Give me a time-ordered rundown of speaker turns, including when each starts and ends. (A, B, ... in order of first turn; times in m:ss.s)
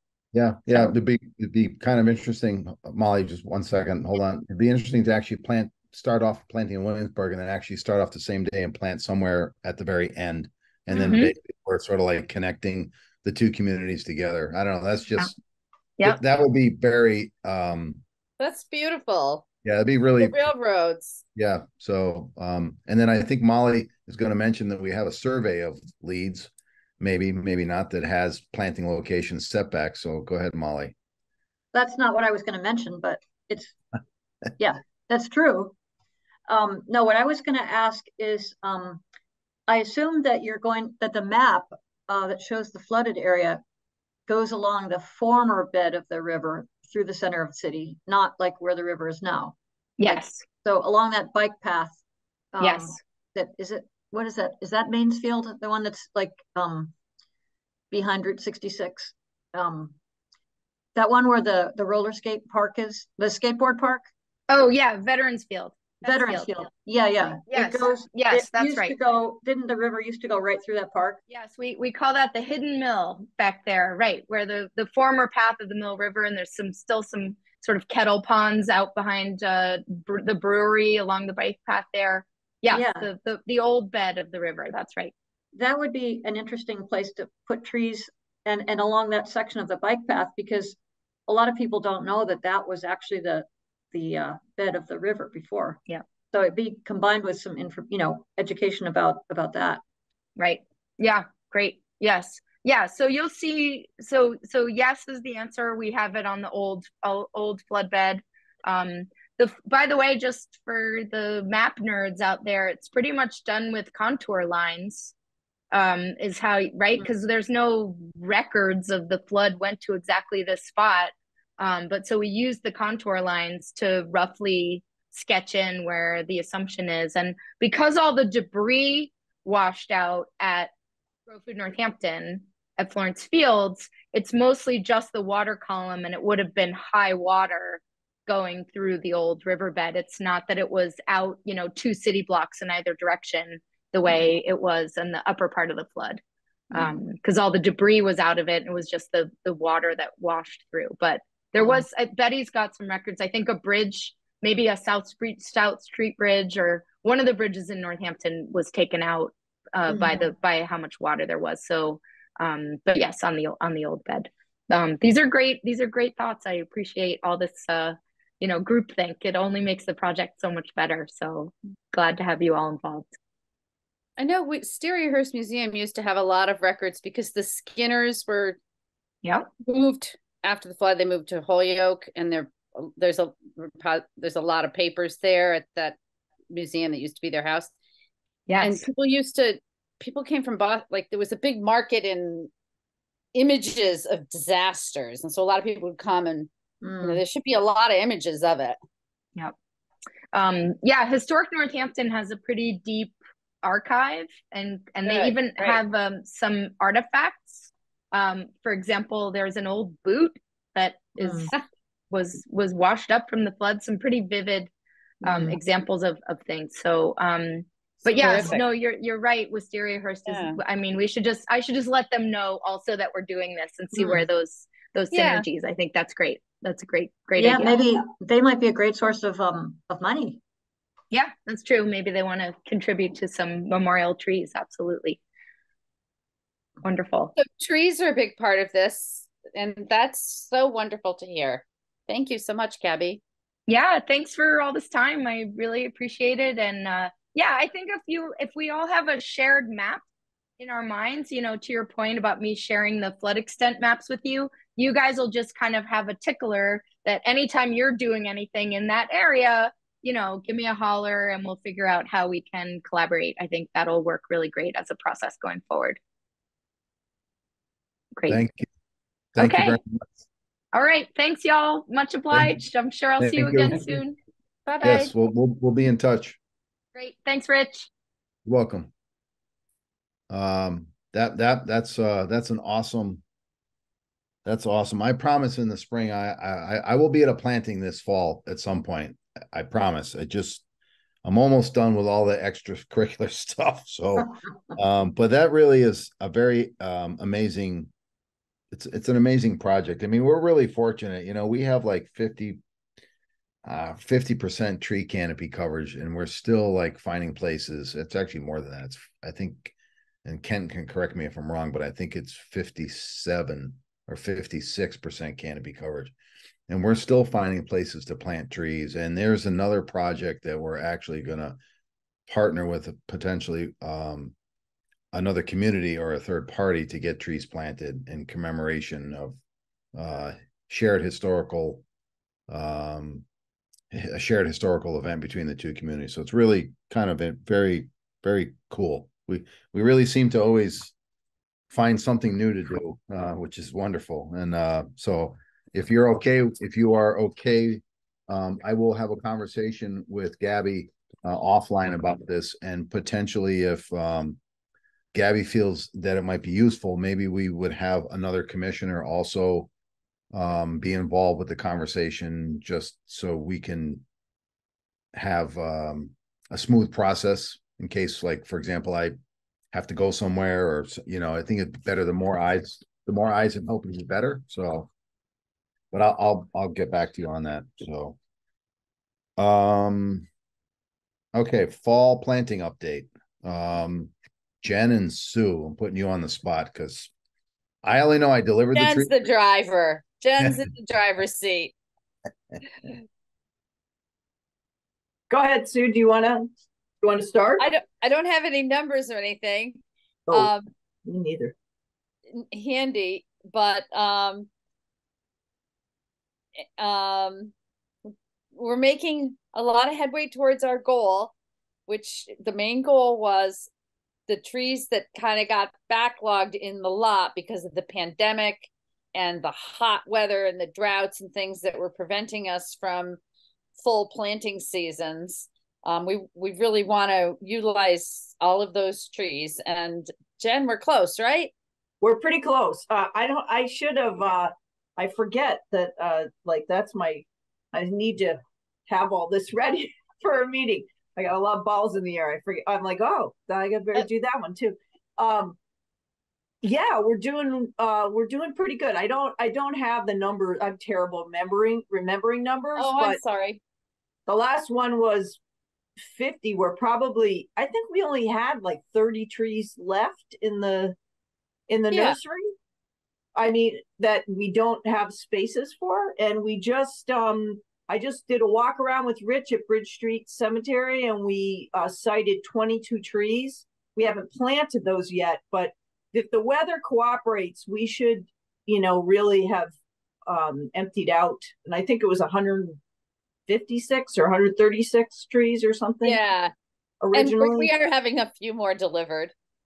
0:00.3-0:15.4 A
0:10.9-0:11.3 B
0:16.0-0:18.0 A
0:18.4-0:19.4 C
0:19.6-0:20.4 A
0:20.2-0:21.2 C
0:21.4-0:30.9 A
0:31.7-0:33.8 D
0:34.6-0:35.8 D
0:36.5-0:39.0 D
0:39.7-0:43.6 D
0:44.3-0:52.0 D
0:50.0-0:50.4 B
0:52.5-0:56.9 D
0:52.6-0:53.0 B
0:57.9-1:00.0 D
1:01.0-1:04.1 D
1:04.5-1:06.7 B
1:06.0-1:11.2 D
1:07.5-1:09.0 B
1:11.3-1:25.1 B
1:22.7-1:23.1 D
1:25.6-1:35.8 D
1:36.3-1:39.8 D
1:40.4-1:55.1 B
1:55.7-2:10.7 B
2:11.3-2:53.1 B
2:26.7-2:27.0 D
2:39.9-2:40.3 D
2:54.2-2:58.6 C
2:59.6-3:06.0 C
3:06.5-3:07.7 C
3:08.5-3:08.9 B
3:08.6-3:12.5 C
3:13.3-3:16.5 C
3:16.8-3:17.2 D
3:17.0-3:18.8 C
3:20.3-3:31.5 B
3:25.0-3:25.8 C
3:31.2-3:31.5 D
3:32.1-3:34.7 B
3:35.2-3:35.6 D
3:35.2-3:47.8 B
3:38.1-3:38.6 D
3:38.2-3:38.6 C
3:40.3-3:40.6 C
3:44.0-3:44.2 D
3:45.1-3:45.4 C
3:47.4-3:50.4 D
3:51.1-3:55.2 B
3:56.8-3:57.3 B
3:57.4-4:03.2 C
4:03.7-4:10.0 B
4:10.6-4:26.0 B
4:28.2-4:28.4 B
4:28.3-4:28.7 A
4:29.4-4:29.8 B
4:29.4-4:30.0 A
4:30.7-4:35.1 B
4:33.2-4:34.0 A
4:34.8-4:36.4 A
4:37.0-4:37.9 B
4:38.5-4:38.9 A
4:40.3-4:43.2 A
4:44.4-4:50.6 A
4:51.2-4:57.9 A
4:58.7-5:02.6 A
5:03.6-5:09.7 A
5:10.2-5:16.1 A
5:16.7-5:21.6 A
5:22.3-5:24.4 A
5:25.1-5:29.4 A
5:29.9-5:31.8 A
5:32.5-5:33.2 A
5:33.9-5:40.9 A
5:41.7-5:54.4 A
5:55.1-5:59.7 A
6:00.3-6:04.0 A
6:05.1-6:09.2 A
6:09.7-6:14.9 A
6:15.9-6:18.2 A
6:19.4-6:20.3 A
6:21.3-6:27.1 A
6:27.8-6:29.1 A
6:28.7-6:31.7 C
6:35.3-6:37.7 E
6:37.6-6:39.8 C
6:40.3-6:40.5 E
6:40.3-6:40.7 C
6:41.0-6:41.5 E
6:42.3-6:44.5 C
6:46.8-6:47.5 C
6:48.5-6:51.3 C
6:51.9-6:53.7 C
6:54.3-7:03.2 C
7:03.8-7:11.5 C
7:12.0-7:25.6 E
7:26.6-7:33.2 E
7:32.8-7:33.6 C
7:34.3-7:35.4 E
7:36.0-7:41.0 E
7:41.7-7:42.5 E
7:41.9-7:42.2 C
7:43.4-7:59.8 E
8:00.3-8:02.8 E
8:03.5-8:06.2 E
8:06.0-8:06.5 C
8:07.0-8:07.7 E
8:07.1-8:09.3 C